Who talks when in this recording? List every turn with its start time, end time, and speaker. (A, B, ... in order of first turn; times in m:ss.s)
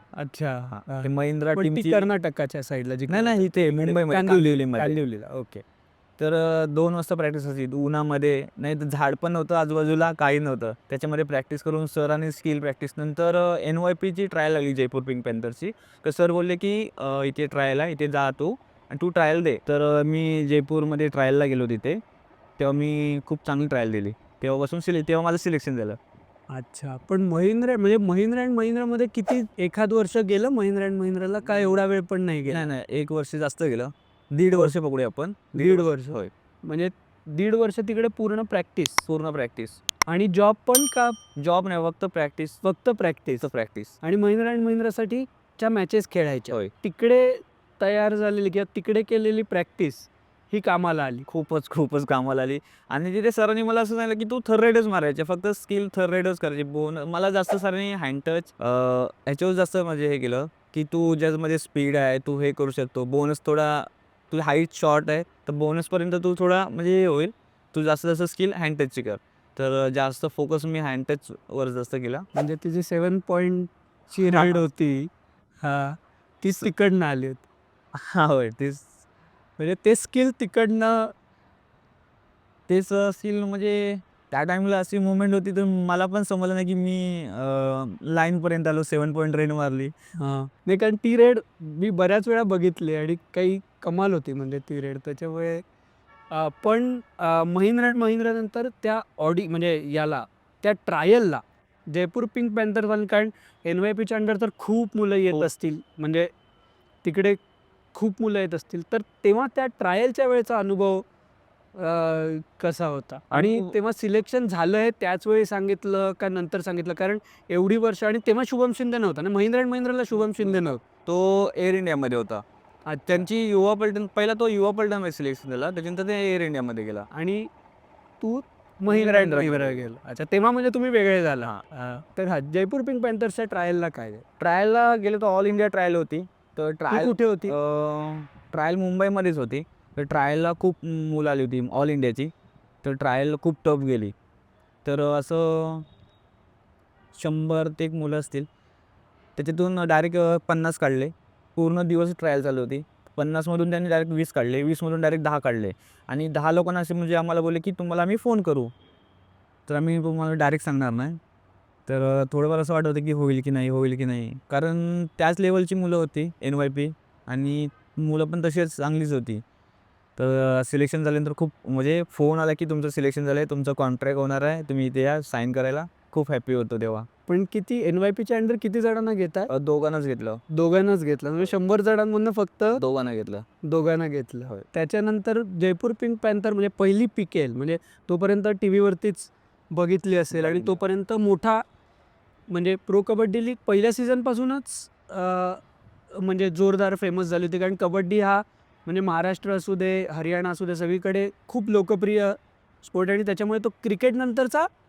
0:00.1-0:05.5 A
0:00.7-0:02.1 B
0:03.1-0:05.6 B
0:06.2-0:22.0 B
0:22.6-0:26.0 B
0:26.5-0:32.6 A
0:32.5-0:36.3 B
0:35.5-0:39.0 A
0:39.0-0:39.8 B
0:40.1-0:41.2 A
0:41.4-0:42.6 B
0:42.6-0:43.5 A
0:43.4-0:44.0 B
0:44.0-0:51.3 A
0:51.3-1:12.3 B
1:12.3-1:15.1 A
1:14.2-1:14.6 B
1:15.6-1:17.4 A
1:17.9-1:19.0 B
1:19.6-1:21.1 A
1:22.7-1:29.9 B
1:30.2-1:35.6 A
1:36.3-1:46.3 A
1:47.0-1:47.4 A
1:47.9-1:51.1 A
1:51.7-2:00.8 A
1:53.3-1:53.8 B
2:01.1-2:02.4 B
2:02.9-2:03.3 A
2:03.1-2:07.1 B
2:07.1-2:07.5 A
2:08.2-2:14.2 A
2:08.9-2:09.8 B
2:14.4-2:24.2 B
2:16.9-2:17.6 A
2:24.8-2:25.9 B
2:27.1-2:28.5 B
2:29.4-2:38.7 B
2:39.7-2:41.2 B
2:41.9-2:49.4 B
2:50.2-2:57.1 B
2:57.3-2:59.5 A
2:59.5-3:00.4 B
3:00.5-3:02.8 A
3:02.7-3:03.5 B
3:03.6-3:11.6 A
3:10.4-3:10.8 B
3:12.5-3:24.7 A